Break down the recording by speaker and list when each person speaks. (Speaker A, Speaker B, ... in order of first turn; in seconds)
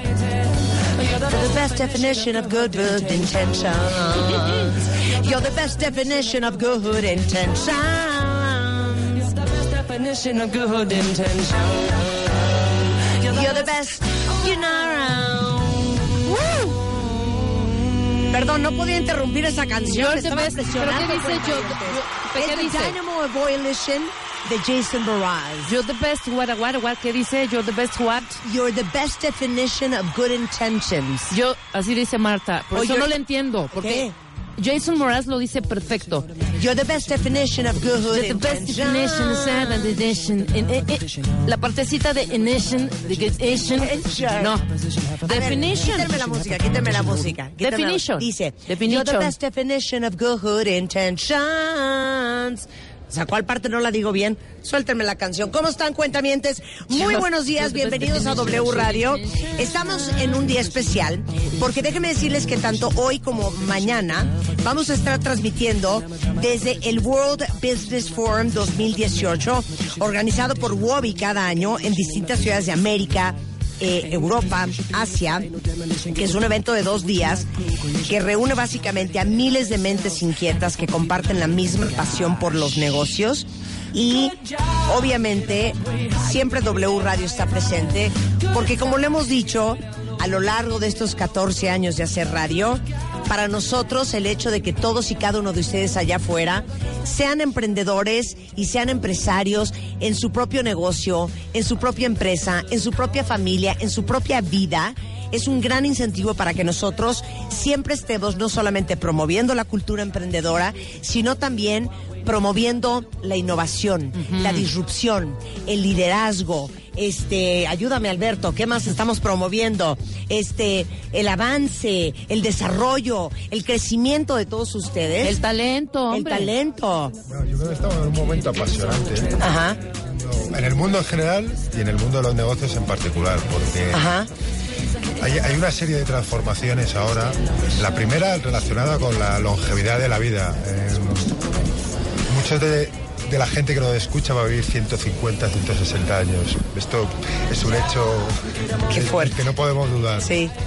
Speaker A: 0.4-1.7, 9.3-13.5, 38.5-41.5, 42.2-45.5, 46.1-47.3
Speaker B: 1.3-9.2, 13.2-17.0, 18.3-25.8, 28.4-31.4, 32.7-33.1, 33.8-34.1, 36.5-39.9, 43.6-44.6, 45.2-75.5, 76.0-125.4, 126.1-127.2, 129.4-129.8, 133.9-134.3, 148.9-149.4, 150.2-150.5
Speaker C: 19.9-23.0, 25.6-28.4, 31.3-36.3, 38.1-44.6, 45.2-46.2, 47.5-49.3, 57.8-59.1, 114.2-114.6, 125.2-126.5
Speaker D: 127.3-134.1, 135.2-141.3, 142.3-148.4, 148.9-150.3